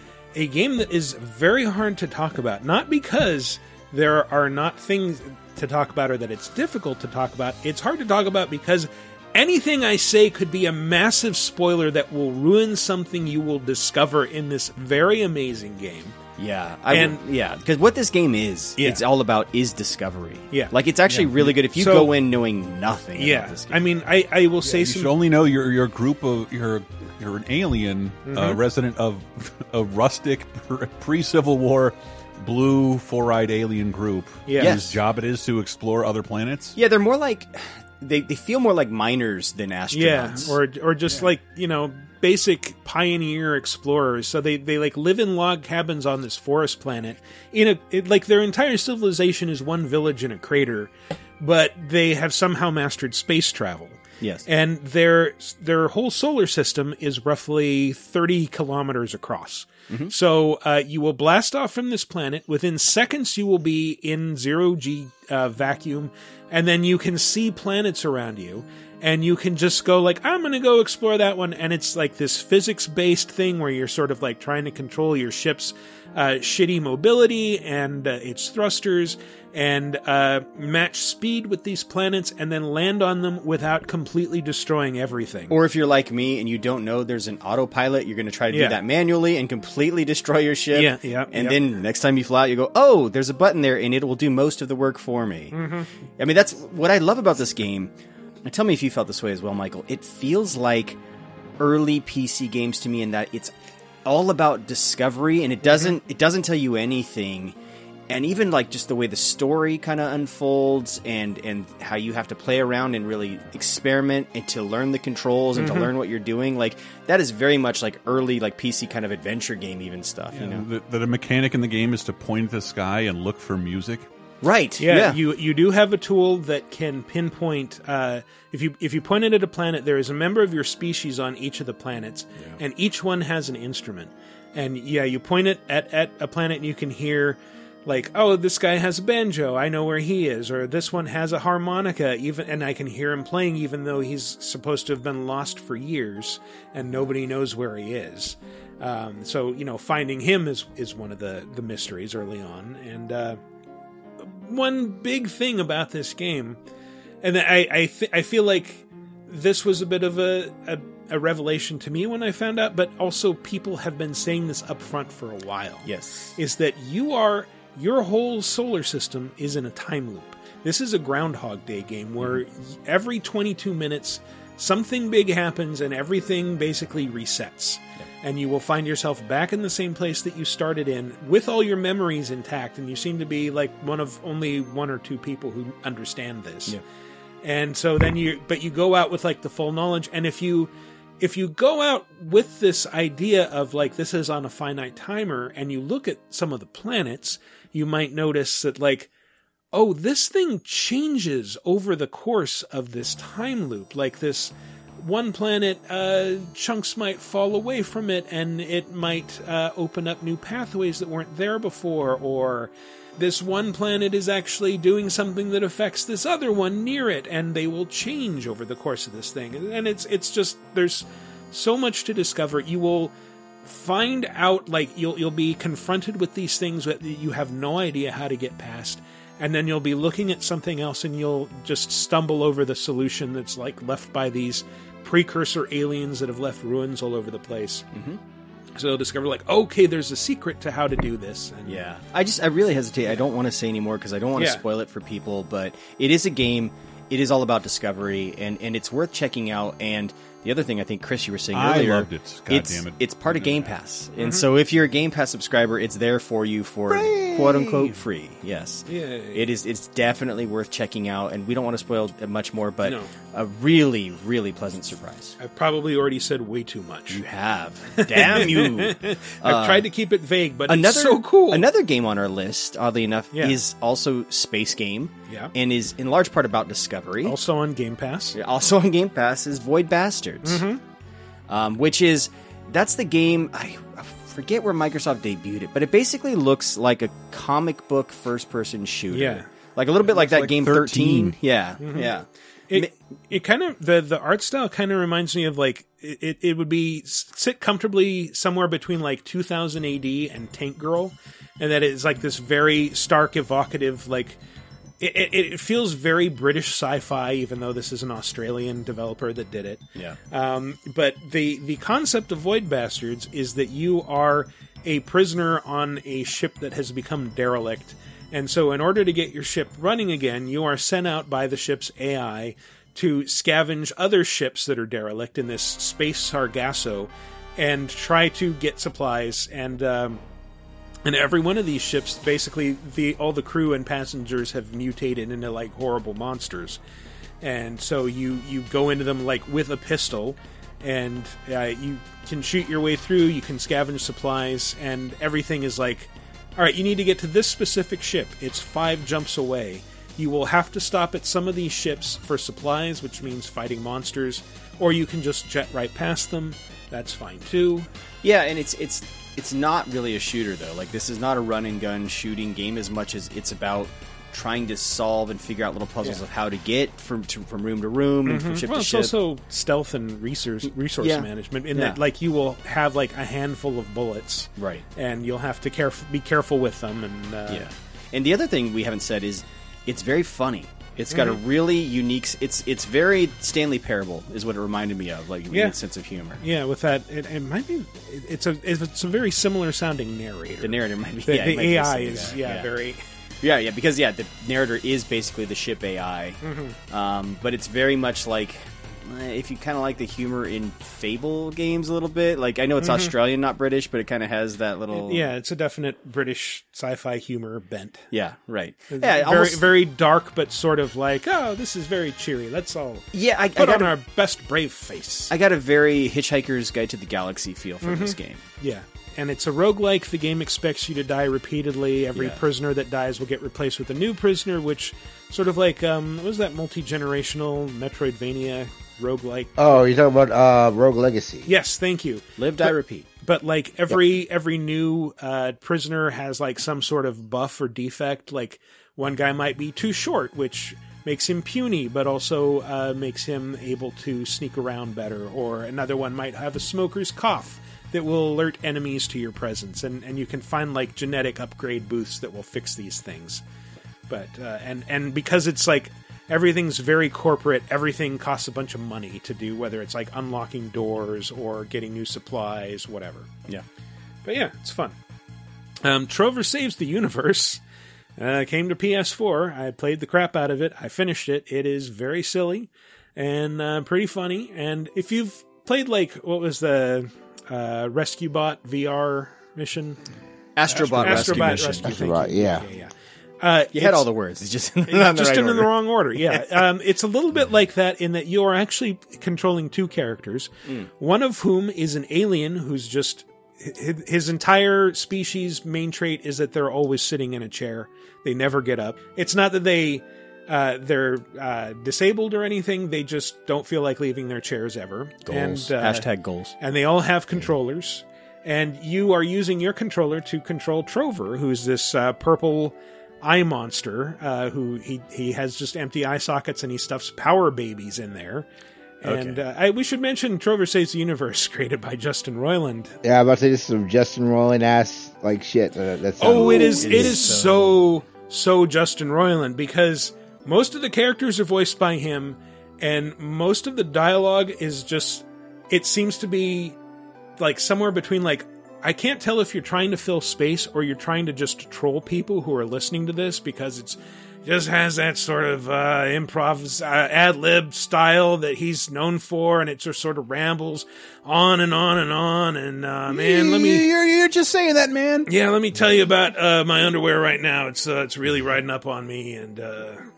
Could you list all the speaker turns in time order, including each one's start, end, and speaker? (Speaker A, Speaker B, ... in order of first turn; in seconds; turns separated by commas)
Speaker A: 0.3-16.2, Speaker B: 16.4-23.8, Speaker A: 16.9-17.2, Speaker A: 18.8-19.0, Speaker C: 21.1-21.6, Speaker A: 21.8-22.1, Speaker A: 23.1-25.1, Speaker C: 24.6-36.8, Speaker A: 28.3-28.6, Speaker A: 34.5-34.8, Speaker B: 34.6-35.0, Speaker B: 36.8-40.5, Speaker A: 39.9-85.6, Speaker B: 54.2-54.5, Speaker B: 85.5-97.9, Speaker A: 88.5-88.8, Speaker A: 90.7-91.6, Speaker A: 95.5-95.9, Speaker B: 98.4-101.0, Speaker B: 101.6-103.5, Speaker B: 104.0-107.5, Speaker A: 105.7-106.0, Speaker B: 108.1-120.7, Speaker A: 115.5-115.9, Speaker C: 120.3-124.1, Speaker B: 124.4-125.2, Speaker A: 124.8-153.4, Speaker A: 154.2-156.6, Speaker A: 157.2-186.8, Speaker B: 165.8-166.3, Speaker A: 187.4-199.1, Speaker A: 199.7-223.1, Speaker A: 223.7-237.9, Speaker B: 237.9-238.2, Speaker A: 238.8-241.8, Speaker B: 241.7-265.4, Speaker A: 244.3-244.6, Speaker C: 251.5-253.8, Speaker A: 254.2-254.5, Speaker C: 256.9-258.0, Speaker A: 258.9-259.5, Speaker A: 262.8-263.1, Speaker A: 265.4-267.2, Speaker B: 267.1-269.9, Speaker A: 268.1-271.7, Speaker B: 270.7-277.4, Speaker A: 273.3-273.6, Speaker A: 277.2-278.4, Speaker B: 278.4-280.6, Speaker A: 280.4-280.8, Speaker B: 281.5-292.9, Speaker A: 289.1-289.5, Speaker C: 290.0-291.4, Speaker A: 291.8-292.2, Speaker A: 292.7-304.4, Speaker A: 305.0-330.2, Speaker A: 331.1-336.8, Speaker A: 337.4-357.9, Speaker B: 358.2-369.1, Speaker A: 368.3-377.7, Speaker B: 371.0-372.0, Speaker B: 374.6-374.9, Speaker B: 377.5-386.4, Speaker A: 381.1-381.4, Speaker A: 385.5-385.8, Speaker A: 386.4-393.0, Speaker B: 390.6-392.7, Speaker B: 393.4-405.3, Speaker A: 396.4-396.8, Speaker A: 402.8-403.1, Speaker A: 404.9-408.1, Speaker B: 408.1-409.7, Speaker A: 408.9-415.3, Speaker B: 413.1-413.9, Speaker B: 415.3-418.4, Speaker A: 417.8-429.7, Speaker B: 422.1-422.4, Speaker D: 429.6-431.5, Speaker A: 431.5-453.4, Speaker B: 432.4-433.1, Speaker A: 454.1-463.3, Speaker A: 464.2-465.0, Speaker A: 465.8-467.6, Speaker A: 468.2-480.0, Speaker B: 480.6-482.6, Speaker A: 480.7-484.1, Speaker D: 481.2-482.7, Speaker B: 483.7-485.7, Speaker A: 484.9-506.1, Speaker B: 505.3-506.6, Speaker A: 506.6-518.5, Speaker A: 519.0-523.0, Speaker B: 519.0-519.4, Speaker D: 523.0-527.2, Speaker A: 526.2-536.8, Speaker B: 526.3-527.8, Speaker A: 537.4-553.9, Speaker C: 553.1-555.3, Speaker A: 555.3-560.1